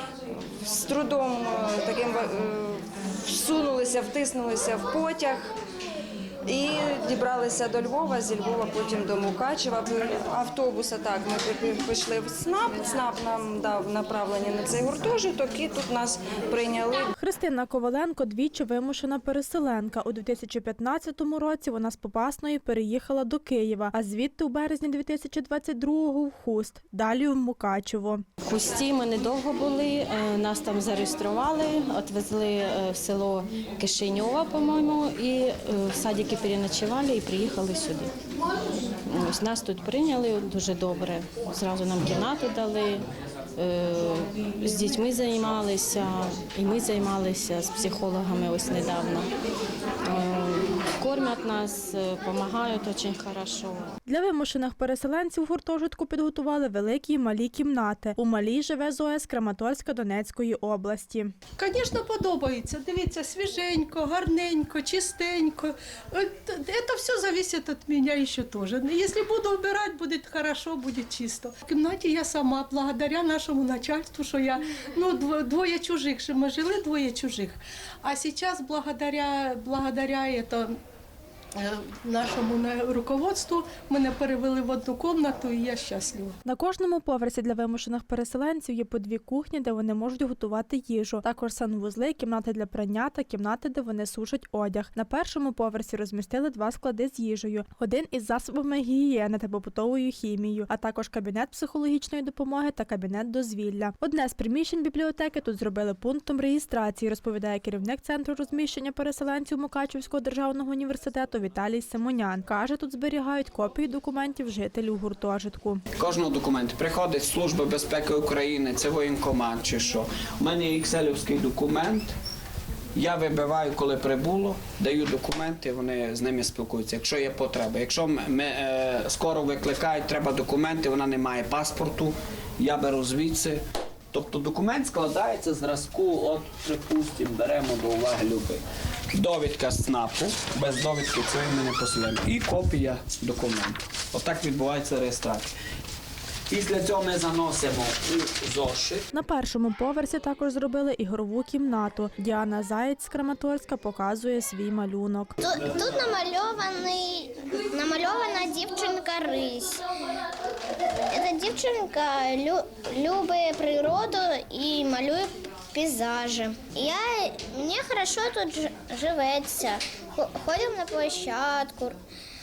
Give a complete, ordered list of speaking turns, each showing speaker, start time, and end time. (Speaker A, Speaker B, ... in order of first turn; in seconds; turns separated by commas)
Speaker A: 0.3-5.5, Speaker A: 6.5-17.1, Speaker B: 17.2-28.2, Speaker C: 28.4-38.1, Speaker C: 39.1-43.0, Speaker C: 43.6-49.3, Speaker C: 50.1-53.9, Speaker B: 54.1-61.3, Speaker D: 61.6-80.7, Speaker D: 81.5-86.3, Speaker B: 86.5-115.8, Speaker E: 116.0-122.1, Speaker E: 122.9-133.6, Speaker E: 134.1-138.6, Speaker E: 139.1-145.5, Speaker E: 146.5-149.0, Speaker B: 149.1-155.3, Speaker F: 155.4-159.8, Speaker F: 161.1-171.9